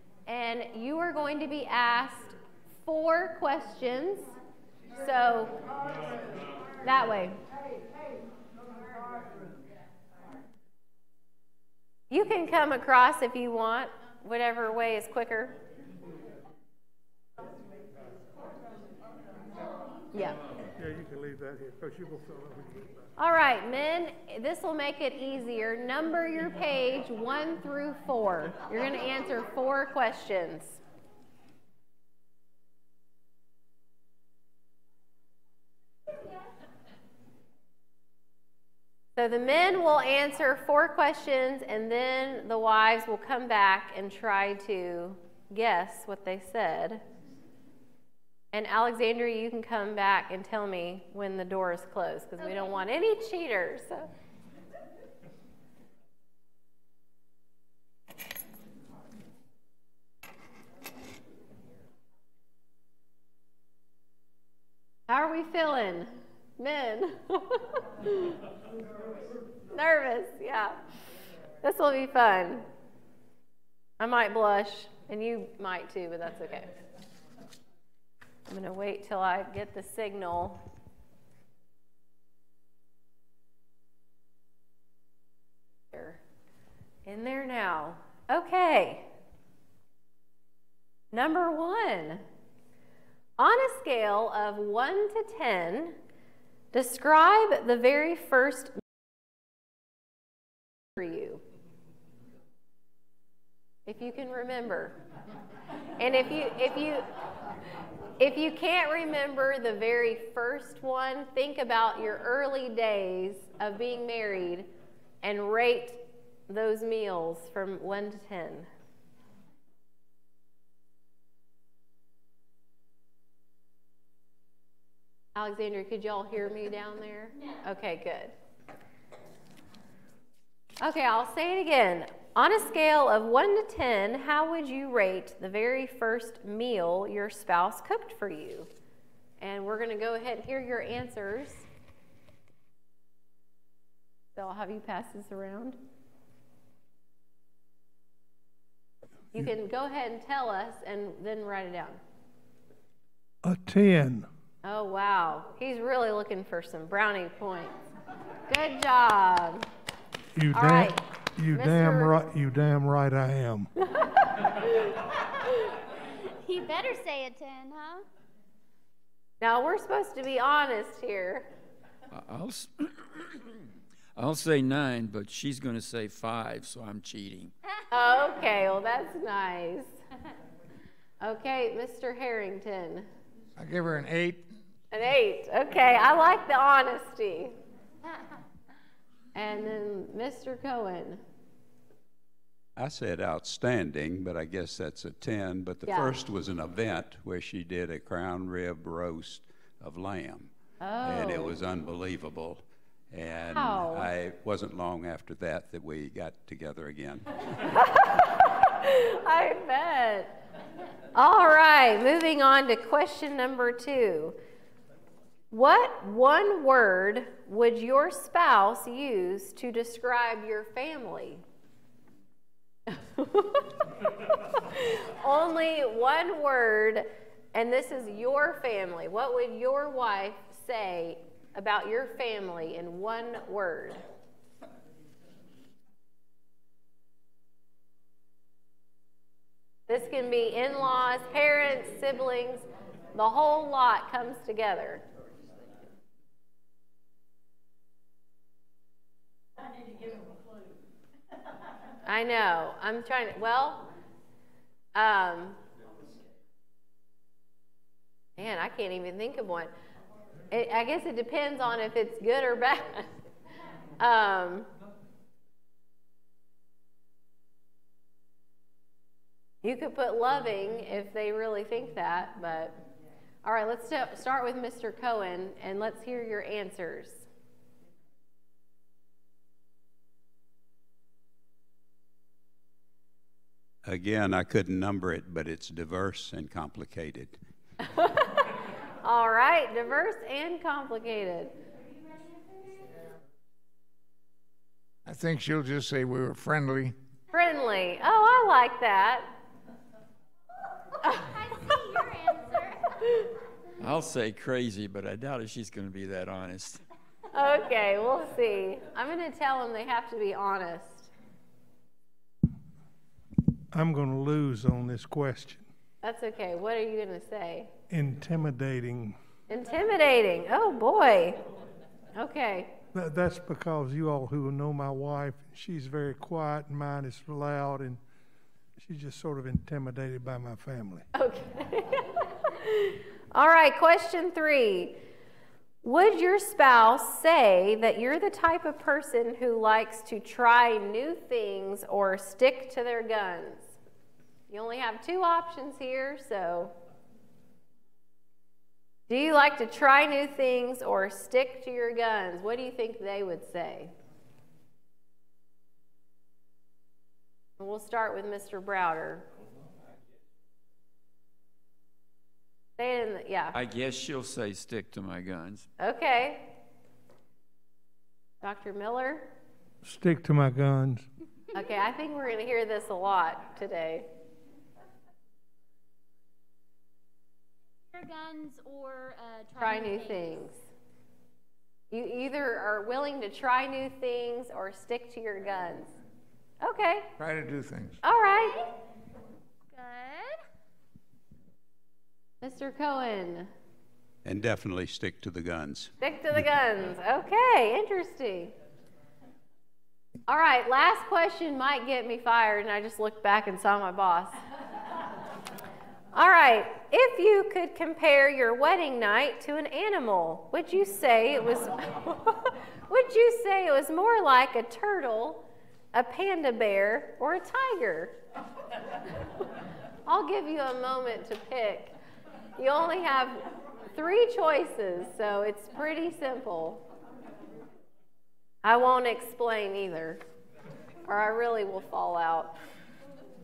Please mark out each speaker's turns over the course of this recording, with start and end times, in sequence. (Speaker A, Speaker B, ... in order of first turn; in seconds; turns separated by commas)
Speaker A: 0.3-4.3, Speaker A: 4.9-5.6, Speaker A: 6.8-7.4, Speaker A: 12.1-15.6, Speaker B: 20.7-23.0, Speaker A: 23.2-30.8, Speaker A: 39.2-47.0, Speaker A: 48.5-54.1, Speaker A: 65.1-68.4, Speaker A: 69.7-70.8, Speaker A: 71.6-72.7, Speaker A: 74.0-76.7, Speaker A: 78.5-80.6, Speaker A: 85.9-86.2, Speaker A: 87.0-89.1, Speaker A: 91.1-92.2, Speaker A: 93.4-96.0, Speaker A: 96.7-98.8, Speaker A: 101.0-101.4, Speaker A: 103.8-105.0, Speaker A: 106.0-107.0, Speaker A: 108.2-114.7, Speaker A: 115.2-118.7, Speaker A: 125.3-128.3, Speaker A: 130.8-138.7, Speaker A: 139.4-141.7, Speaker A: 144.3-145.8, Speaker A: 149.3-152.0, Speaker B: 153.4-154.3, Speaker A: 154.6-157.7, Speaker A: 158.5-159.7, Speaker B: 160.3-163.7, Speaker A: 160.5-162.2, Speaker C: 166.3-168.1, Speaker A: 169.4-171.5, Speaker D: 172.1-173.6, Speaker D: 174.2-177.5, Speaker A: 177.9-179.9, Speaker A: 181.2-183.1, Speaker E: 183.6-184.5, Speaker A: 184.9-187.6, Speaker A: 189.3-191.2, Speaker F: 192.8-200.5, Speaker A: 195.9-196.1, Speaker A: 200.8-201.6, Speaker F: 201.0-207.4, Speaker A: 203.5-204.1, Speaker A: 207.7-210.3, Speaker A: 211.1-214.4, Speaker A: 215.5-221.4, Speaker A: 222.9-223.7, Speaker A: 224.5-234.0, Speaker A: 239.9-245.0, Speaker A: 252.1-253.9, Speaker A: 254.9-255.6, Speaker A: 258.4-259.7, Speaker A: 260.5-263.1, Speaker A: 264.0-264.7, Speaker A: 269.6-272.8, Speaker A: 273.4-277.2, Speaker F: 283.8-287.4, Speaker A: 287.9-288.3, Speaker A: 289.0-291.6, Speaker E: 295.1-296.9, Speaker A: 297.3-299.3, Speaker C: 301.1-303.3, Speaker D: 303.8-306.8, Speaker A: 307.3-311.1, Speaker B: 313.7-315.7, Speaker A: 316.0-317.7, Speaker B: 317.9-319.2, Speaker A: 319.5-321.4, Speaker A: 322.1-322.7, Speaker B: 322.9-328.0, Speaker B: 328.8-331.1, Speaker A: 331.1-335.0, Speaker A: 335.8-343.8, Speaker A: 344.5-346.7, Speaker A: 349.1-353.9, Speaker A: 357.6-359.2, Speaker A: 362.8-363.5, Speaker D: 363.5-365.7, Speaker A: 365.8-366.5, Speaker A: 368.4-369.3, Speaker B: 369.8-371.1, Speaker A: 371.5-374.1, Speaker C: 377.9-380.4, Speaker A: 379.6-380.6, Speaker A: 381.9-385.9, Speaker A: 386.6-387.1, Speaker E: 387.2-388.0, Speaker A: 388.0-388.7, Speaker C: 389.7-390.4, Speaker A: 392.4-393.5, Speaker F: 394.2-395.9, Speaker A: 396.0-398.5, Speaker A: 400.3-404.4, Speaker A: 406.1-418.2, Speaker A: 420.1-421.9, Speaker A: 422.6-426.8, Speaker A: 428.6-430.2, Speaker A: 431.0-432.5